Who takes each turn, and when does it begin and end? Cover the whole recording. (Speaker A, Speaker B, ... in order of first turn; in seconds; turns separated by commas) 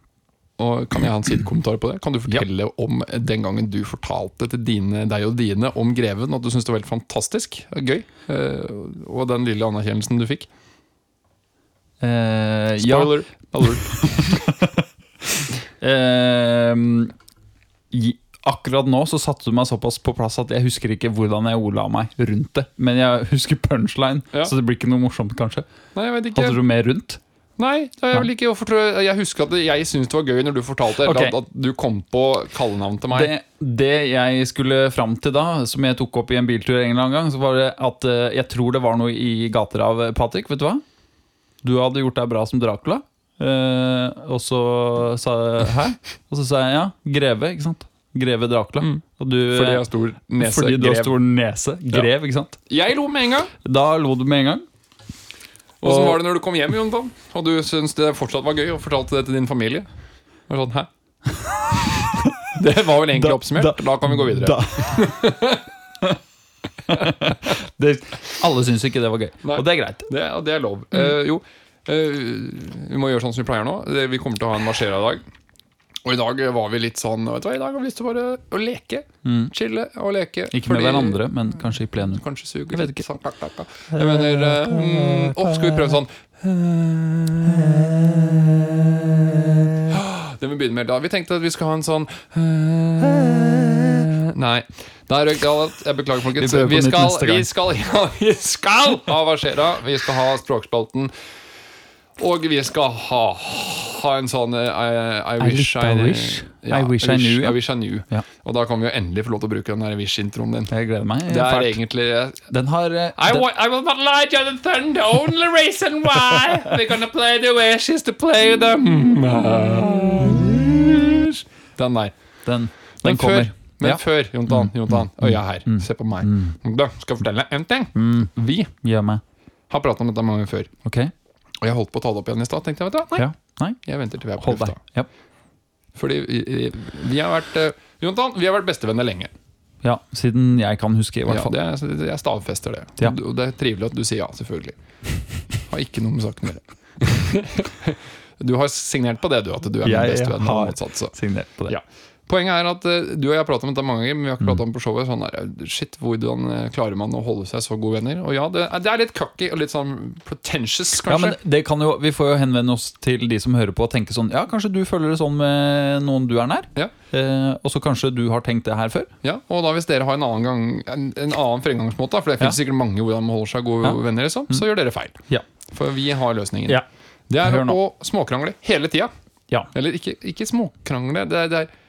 Speaker A: 0.6-10.5, Speaker B: 12.0-14.8, Speaker A: 12.8-14.4, Speaker B: 15.8-17.1, Speaker B: 17.9-25.6, Speaker A: 25.9-26.6, Speaker B: 26.3-27.2, Speaker A: 27.6-33.3, Speaker B: 31.0-31.3, Speaker B: 33.1-40.8, Speaker B: 41.6-52.6, Speaker A: 48.8-51.1, Speaker A: 52.7-53.5, Speaker B: 53.6-54.6, Speaker A: 55.8-59.9, Speaker B: 55.8-56.2, Speaker A: 60.5-60.9, Speaker B: 62.0-62.5, Speaker A: 62.5-65.7, Speaker B: 63.1-65.1, Speaker B: 66.9-70.1, Speaker A: 66.9-67.3, Speaker A: 69.4-75.2, Speaker A: 76.0-81.3, Speaker B: 79.2-79.5, Speaker B: 80.5-83.0, Speaker A: 82.1-89.1, Speaker B: 83.9-85.8, Speaker A: 89.8-101.1, Speaker B: 96.3-97.5, Speaker A: 102.2-110.7, Speaker B: 105.4-107.6, Speaker B: 110.7-111.8, Speaker A: 111.3-112.5, Speaker B: 112.5-113.5, Speaker A: 113.2-122.1, Speaker B: 122.5-126.6, Speaker A: 123.0-128.7, Speaker B: 127.9-129.2, Speaker A: 129.7-130.7, Speaker B: 130.8-131.1, Speaker A: 131.6-133.3, Speaker B: 133.2-133.8, Speaker A: 133.8-134.8, Speaker B: 134.4-135.1, Speaker A: 135.9-139.3, Speaker B: 139.8-141.5, Speaker A: 141.3-144.8, Speaker A: 145.6-151.1, Speaker B: 149.8-151.8, Speaker A: 151.7-161.4, Speaker B: 161.1-169.1, Speaker A: 169.2-179.1, Speaker B: 177.4-177.8, Speaker A: 179.7-181.7